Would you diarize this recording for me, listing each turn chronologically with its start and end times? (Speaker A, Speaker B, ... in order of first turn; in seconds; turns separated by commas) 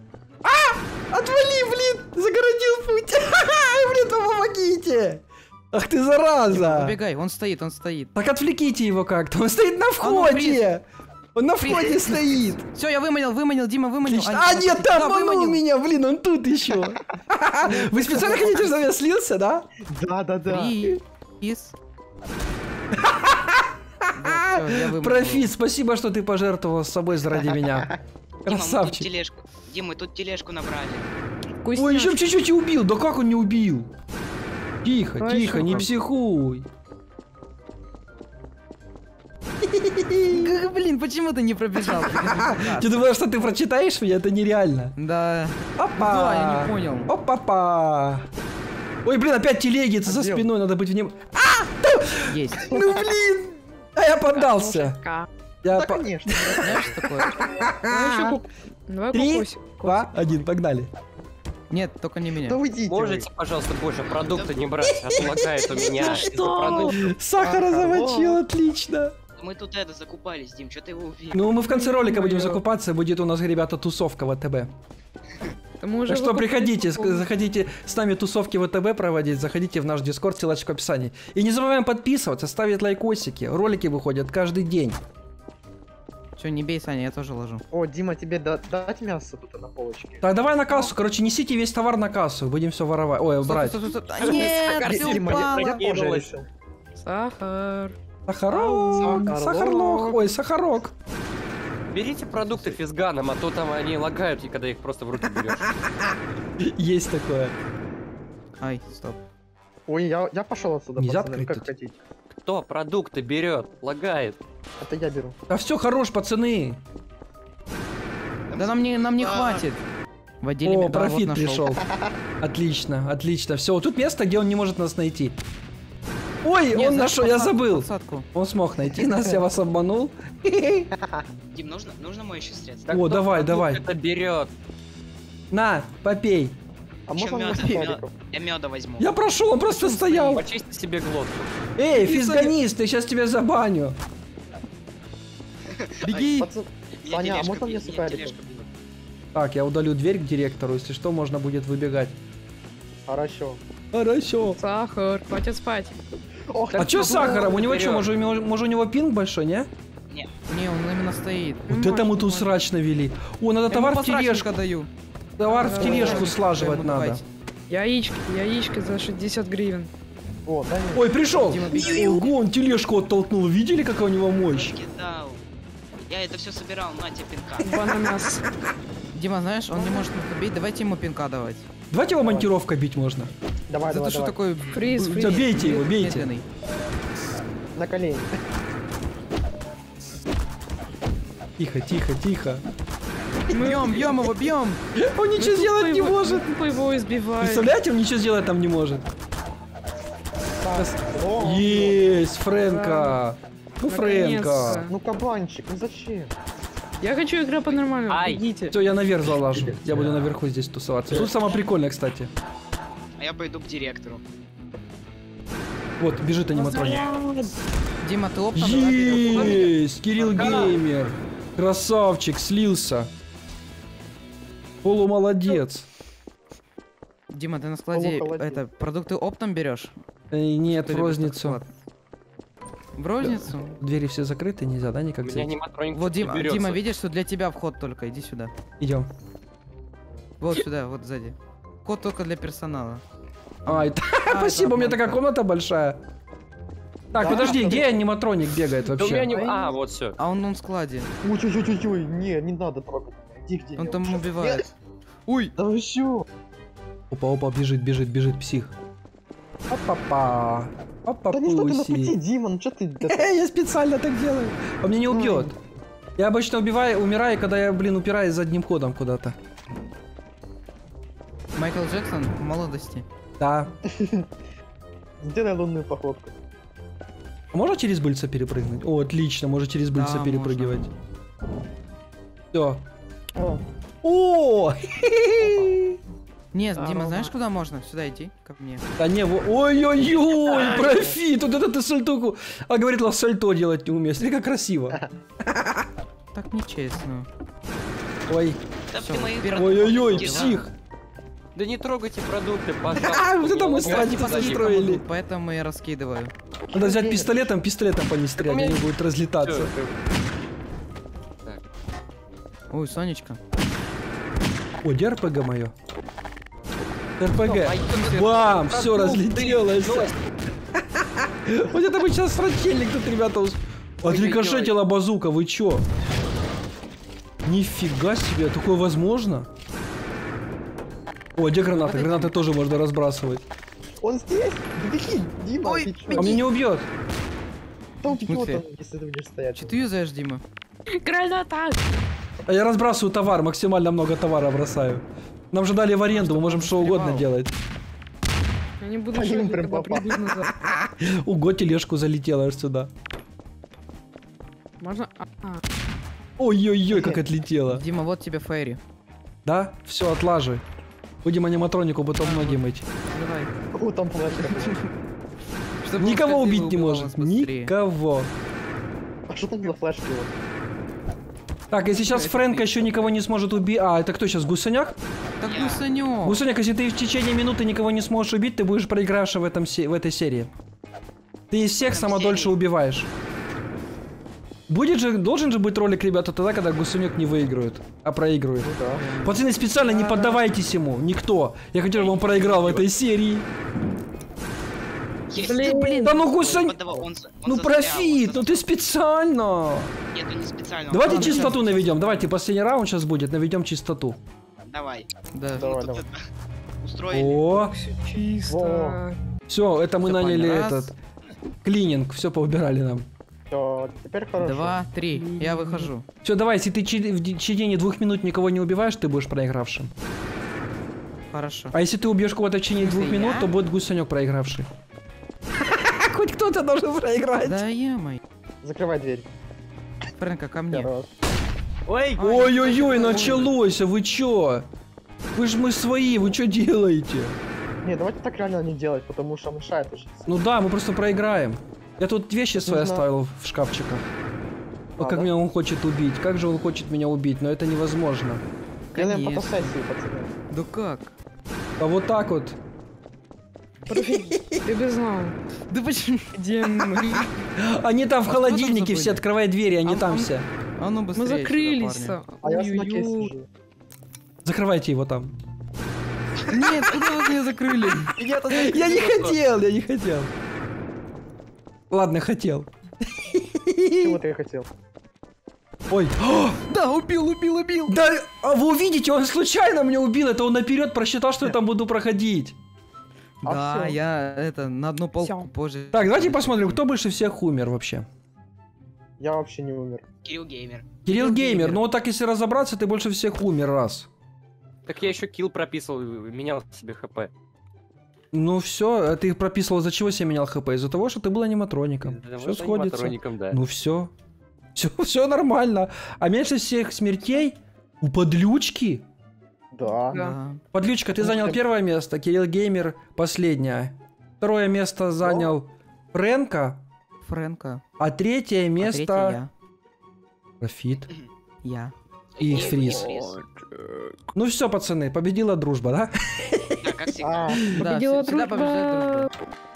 Speaker A: 0.5-7.0, Speaker B: 6.5-8.1, Speaker A: 8.2-10.8, Speaker B: 10.0-10.7, Speaker A: 11.3-12.6, Speaker B: 11.6-15.6, Speaker A: 14.0-19.7, Speaker C: 17.6-18.8, Speaker C: 19.9-20.8, Speaker B: 20.5-21.8, Speaker A: 22.9-23.7, Speaker B: 24.1-25.5, Speaker A: 24.2-27.9, Speaker C: 27.5-27.9, Speaker D: 28.4-31.1, Speaker A: 28.5-29.1, Speaker E: 31.6-32.3, Speaker A: 31.8-33.9, Speaker A: 34.8-36.7, Speaker E: 35.2-35.9, Speaker B: 35.6-35.9, Speaker A: 39.6-40.5, Speaker B: 40.3-43.1, Speaker A: 42.0-44.9, Speaker B: 45.0-47.1, Speaker A: 45.8-48.3, Speaker A: 49.0-55.0, Speaker C: 50.0-50.5, Speaker B: 52.3-52.7, Speaker C: 52.7-53.0, Speaker E: 54.3-55.3, Speaker A: 55.6-58.3, Speaker C: 55.7-56.9, Speaker B: 56.6-57.3, Speaker E: 57.9-60.4, Speaker A: 59.1-60.9, Speaker B: 61.7-62.6, Speaker C: 62.4-63.3, Speaker F: 62.8-67.0, Speaker D: 64.0-64.7, Speaker A: 65.2-69.2, Speaker D: 65.7-66.9, Speaker E: 66.3-66.9, Speaker C: 67.4-68.4, Speaker D: 69.4-71.5, Speaker A: 71.3-74.7, Speaker E: 71.6-72.6, Speaker E: 75.8-77.3, Speaker A: 76.1-85.0, Speaker B: 86.4-87.6, Speaker C: 87.7-90.3, Speaker A: 90.2-93.8, Speaker E: 90.7-90.9, Speaker B: 93.4-95.8, Speaker F: 94.2-96.3, Speaker C: 94.3-96.5, Speaker E: 97.0-98.0, Speaker A: 98.3-100.9, Speaker E: 98.5-99.2, Speaker C: 98.9-100.2, Speaker F: 101.9-105.7, Speaker A: 105.6-107.6, Speaker B: 108.6-109.2, Speaker C: 109.9-112.0, Speaker A: 111.0-111.7, Speaker F: 112.3-114.4, Speaker C: 114.8-115.4, Speaker A: 115.5-116.8, Speaker D: 118.5-119.6, Speaker B: 118.5-119.8, Speaker B: 120.4-121.7, Speaker A: 120.7-121.8, Speaker C: 121.9-122.1, Speaker A: 122.4-125.4, Speaker A: 126.4-130.9, Speaker B: 126.7-128.3, Speaker D: 131.5-133.0, Speaker F: 132.9-134.5, Speaker A: 132.9-133.8, Speaker A: 135.5-136.6, Speaker C: 137.1-138.1, Speaker D: 137.1-139.1, Speaker A: 139.0-140.4, Speaker D: 139.8-140.1, Speaker F: 140.3-141.5, Speaker A: 141.8-144.0, Speaker B: 141.9-142.6, Speaker D: 145.7-146.4, Speaker B: 146.0-146.5, Speaker C: 146.4-148.4, Speaker D: 147.0-148.7, Speaker A: 149.3-152.2, Speaker C: 153.1-153.6, Speaker A: 153.9-154.6, Speaker E: 154.5-156.0, Speaker C: 156.5-157.7, Speaker A: 156.8-159.7, Speaker E: 157.1-157.4, Speaker F: 157.5-158.1, Speaker B: 160.5-162.5, Speaker E: 161.7-162.3, Speaker A: 161.7-164.5, Speaker B: 163.7-164.9, Speaker A: 165.4-167.2, Speaker E: 165.4-166.3, Speaker C: 165.7-166.3, Speaker B: 165.8-167.2, Speaker E: 167.7-169.9, Speaker C: 170.5-171.9, Speaker A: 170.9-174.8, Speaker B: 171.3-172.3, Speaker D: 174.5-175.4, Speaker D: 176.1-177.8, Speaker E: 177.6-178.5, Speaker B: 179.1-181.7, Speaker E: 179.7-180.1, Speaker A: 181.9-183.3, Speaker C: 182.2-182.5, Speaker C: 183.7-184.4, Speaker B: 183.9-186.4, Speaker E: 184.7-185.7, Speaker A: 185.2-186.3, Speaker C: 187.8-188.3, Speaker A: 191.6-192.6, Speaker E: 193.5-194.0, Speaker B: 193.5-194.8, Speaker A: 194.9-196.5, Speaker E: 195.4-197.7, Speaker A: 197.4-199.1, Speaker C: 200.6-202.1, Speaker A: 200.8-204.9, Speaker E: 202.6-203.2, Speaker E: 203.8-204.9, Speaker C: 204.9-206.3, Speaker E: 207.0-208.8, Speaker F: 208.1-208.4, Speaker A: 208.7-212.3, Speaker D: 213.2-214.2, Speaker A: 216.0-217.1, Speaker B: 218.0-219.7, Speaker A: 218.6-223.1, Speaker F: 220.3-220.8, Speaker A: 224.8-225.9, Speaker B: 227.3-229.9, Speaker C: 227.9-228.6, Speaker A: 230.3-231.6, Speaker B: 230.7-231.7, Speaker B: 233.0-233.8, Speaker A: 233.2-235.5, Speaker F: 235.2-236.8, Speaker B: 235.9-238.5, Speaker A: 238.8-239.1, Speaker B: 240.4-243.0, Speaker B: 243.7-245.2, Speaker A: 243.7-246.0, Speaker A: 247.1-249.4, Speaker C: 247.1-248.1, Speaker F: 249.0-250.2, Speaker E: 249.3-249.7, Speaker B: 250.2-251.1, Speaker C: 251.2-254.7, Speaker B: 253.8-254.7, Speaker B: 255.3-255.5, Speaker C: 255.6-256.3, Speaker A: 257.1-258.7, Speaker A: 259.7-262.2, Speaker C: 261.3-263.3, Speaker A: 263.1-265.5, Speaker C: 265.1-265.6, Speaker A: 266.2-269.4, Speaker B: 271.6-273.1, Speaker A: 273.4-273.7, Speaker C: 273.9-274.3, Speaker C: 275.2-276.3, Speaker A: 277.5-280.9, Speaker B: 279.9-280.9, Speaker A: 282.5-282.8, Speaker C: 283.4-283.6, Speaker A: 284.0-286.0, Speaker C: 285.4-285.8, Speaker B: 286.5-288.9, Speaker E: 286.8-287.3, Speaker A: 289.0-295.9, Speaker C: 290.5-291.2, Speaker D: 290.6-290.9, Speaker B: 296.3-297.3, Speaker A: 298.3-298.6, Speaker D: 298.9-300.6, Speaker B: 299.0-300.6, Speaker A: 299.5-300.7, Speaker F: 301.6-304.7, Speaker A: 302.9-305.0, Speaker B: 303.8-306.3, Speaker C: 306.7-307.5, Speaker A: 306.7-309.7, Speaker F: 308.4-308.9, Speaker F: 309.4-309.9, Speaker B: 312.7-313.4, Speaker A: 314.8-315.7, Speaker A: 317.2-320.1, Speaker F: 317.5-320.1, Speaker A: 320.8-325.8, Speaker F: 324.0-324.7, Speaker A: 327.4-329.5, Speaker A: 331.4-333.4, Speaker B: 331.7-332.4, Speaker C: 334.0-336.4, Speaker A: 336.1-336.9, Speaker C: 338.0-339.8, Speaker B: 338.2-338.6, Speaker B: 339.6-340.4, Speaker E: 341.0-342.0, Speaker A: 342.5-347.5, Speaker B: 346.1-347.3, Speaker E: 348.8-350.5, Speaker C: 349.1-350.2, Speaker A: 350.4-352.9, Speaker E: 354.8-355.6, Speaker A: 356.4-357.8, Speaker C: 356.9-357.2, Speaker B: 357.7-358.8, Speaker A: 359.4-360.6, Speaker A: 361.2-362.8, Speaker B: 362.2-363.5, Speaker C: 363.7-364.8, Speaker B: 364.3-364.9, Speaker B: 365.8-367.7, Speaker A: 366.0-368.3, Speaker C: 369.3-370.3, Speaker A: 371.7-375.0, Speaker B: 371.9-373.0, Speaker B: 375.4-376.4, Speaker D: 375.4-375.8, Speaker A: 376.2-380.5, Speaker A: 381.5-383.1, Speaker D: 381.9-382.6, Speaker A: 384.7-393.5, Speaker C: 388.6-389.1, Speaker B: 388.9-389.4, Speaker E: 389.8-390.4, Speaker F: 392.1-392.9, Speaker D: 395.3-398.7, Speaker E: 395.4-396.3, Speaker A: 395.6-396.8, Speaker C: 396.2-397.1, Speaker A: 397.4-399.9, Speaker D: 400.1-401.6, Speaker A: 400.9-404.2, Speaker B: 401.0-402.3, Speaker D: 404.6-406.2, Speaker B: 405.3-405.6, Speaker C: 405.6-406.0, Speaker D: 406.8-407.5, Speaker A: 407.1-407.7, Speaker E: 407.6-409.2, Speaker C: 408.5-409.0, Speaker A: 409.5-410.9, Speaker B: 410.0-410.9, Speaker A: 411.6-413.1, Speaker C: 413.5-414.8, Speaker B: 414.4-416.1, Speaker E: 415.1-415.9, Speaker A: 416.2-419.9, Speaker B: 421.3-421.8, Speaker A: 421.7-424.7, Speaker B: 422.8-423.5, Speaker A: 425.6-427.6, Speaker B: 427.4-428.2, Speaker C: 428.6-429.3, Speaker B: 430.2-430.9, Speaker C: 430.7-431.1, Speaker F: 431.9-432.3, Speaker B: 432.2-433.6, Speaker A: 432.2-434.7, Speaker A: 435.4-437.4, Speaker C: 437.8-440.3, Speaker A: 440.3-444.1, Speaker C: 442.6-443.1, Speaker A: 445.0-448.4, Speaker C: 445.0-445.3, Speaker B: 448.9-449.8, Speaker C: 448.9-450.4, Speaker B: 450.5-451.1, Speaker A: 451.8-452.6, Speaker E: 453.9-455.4, Speaker B: 455.7-456.3, Speaker E: 456.3-457.3, Speaker A: 457.6-460.5, Speaker B: 458.2-459.2, Speaker B: 459.8-462.2, Speaker E: 461.1-463.3, Speaker C: 462.4-463.5, Speaker A: 464.4-465.4, Speaker B: 466.5-469.2, Speaker F: 468.4-469.3, Speaker A: 468.5-470.3, Speaker A: 471.9-474.2, Speaker C: 474.0-474.7, Speaker A: 475.9-476.6, Speaker B: 476.6-478.0, Speaker A: 477.9-482.6, Speaker B: 483.4-486.8, Speaker C: 483.4-484.0, Speaker E: 485.2-485.5, Speaker A: 485.9-488.1, Speaker C: 489.2-490.1, Speaker D: 490.2-490.9, Speaker A: 491.1-494.1, Speaker B: 491.1-491.8, Speaker F: 494.9-497.3, Speaker A: 498.3-504.1, Speaker F: 502.0-503.6, Speaker A: 504.8-509.0, Speaker C: 509.7-510.2, Speaker E: 510.1-510.4, Speaker B: 510.1-510.6, Speaker A: 510.7-516.8, Speaker C: 511.2-511.6, Speaker C: 515.2-515.5, Speaker B: 517.2-517.8, Speaker A: 518.0-519.4, Speaker B: 518.8-519.5, Speaker A: 520.6-521.1, Speaker B: 521.6-521.9, Speaker A: 522.4-523.2, Speaker D: 522.4-523.4, Speaker A: 524.4-527.1, Speaker D: 526.8-527.7, Speaker C: 527.2-527.8, Speaker B: 527.7-529.3, Speaker E: 527.8-529.3